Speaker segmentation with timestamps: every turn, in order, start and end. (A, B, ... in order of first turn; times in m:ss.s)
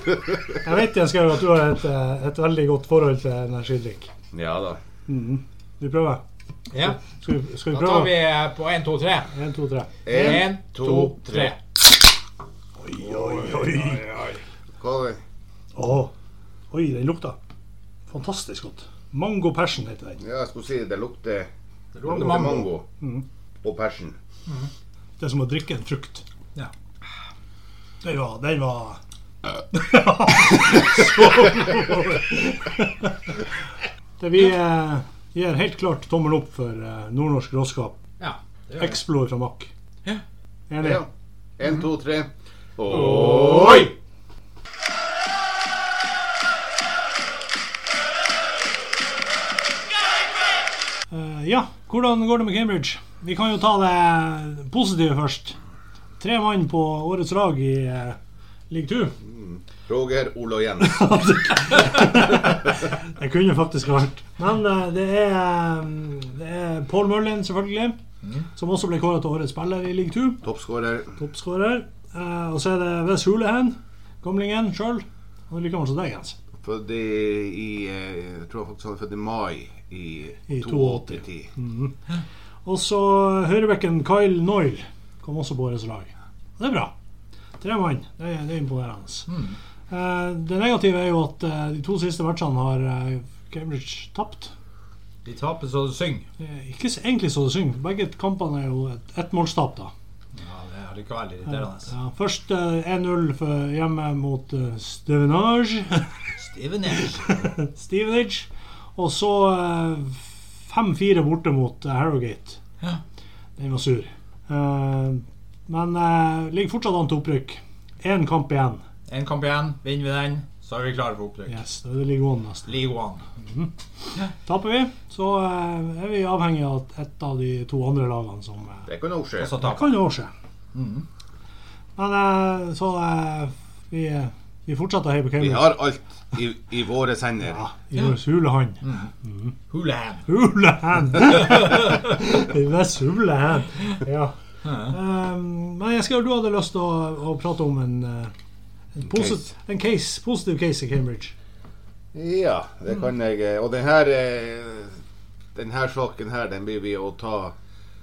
0:00.6-0:04.1 A
0:04.3-0:04.8 B
0:05.1-0:06.2 A
0:06.7-0:07.0 C
0:06.9-0:08.2 A
0:07.7-0:09.3 C
0:09.3-0:10.3 A
0:10.0-0:11.5 B
0:10.1-0:11.6 C
0:12.8-0:14.0 A
0:13.2-0:14.4 C
0:14.8-0:15.2 B
0:15.8-0:16.1 A
0:16.7-0:17.4 A
0:18.1-0:20.2 A
0:20.2-0:21.5 B
0:21.9-0:22.7 C
0:22.0-0:22.9 B
0:23.6-0:24.2 B
0:25.2-0:26.2 A
0:28.0-0:29.0 A
0:29.7-0:33.3 A
0:34.2-0:38.0 A
0:38.2-0:39.0 C
0:38.8-0:39.7 A
0:40.7-0:41.0 A
0:40.8-0:43.9 B
0:42.9-0:43.9 C
0:51.1-0:55.6 A
0:56.2-0:58.2 A
0:58.7-0:59.2 A
0:59.2-1:01.1 B
1:00.8-1:08.0 A
1:08.6-1:10.4 A
1:10.4-1:11.2 B
1:11.2-1:16.4 A
1:16.6-1:21.5 B
1:20.5-1:22.0 A
1:22.6-1:26.9 A
1:27.6-1:29.4 A
1:29.3-1:29.6 C
1:29.9-1:34.5 A
1:35.2-1:36.3 C
1:36.4-1:39.9 A
1:40.4-1:41.9 C
1:41.9-1:46.1 A
1:46.4-1:47.5 C
1:47.0-1:52.6 A
1:53.6-1:58.8 A
1:59.1-2:01.6 C
2:01.5-2:02.7 A
2:02.7-2:03.2 C
2:03.4-2:03.7 A
2:04.4-2:08.9 A
2:08.9-2:09.5 B
2:09.4-2:10.0 C
2:09.6-2:10.3 A
2:10.7-2:11.1 C
2:12.0-2:15.7 A
2:15.4-2:17.6 B
2:17.4-2:19.5 A
2:18.8-2:19.1 C
2:19.7-2:20.2 C
2:20.3-2:28.3 A
2:24.6-2:25.0 C
2:29.0-2:31.3 A
2:29.1-2:29.4 B
2:32.1-2:35.0 B
2:35.6-2:37.6 B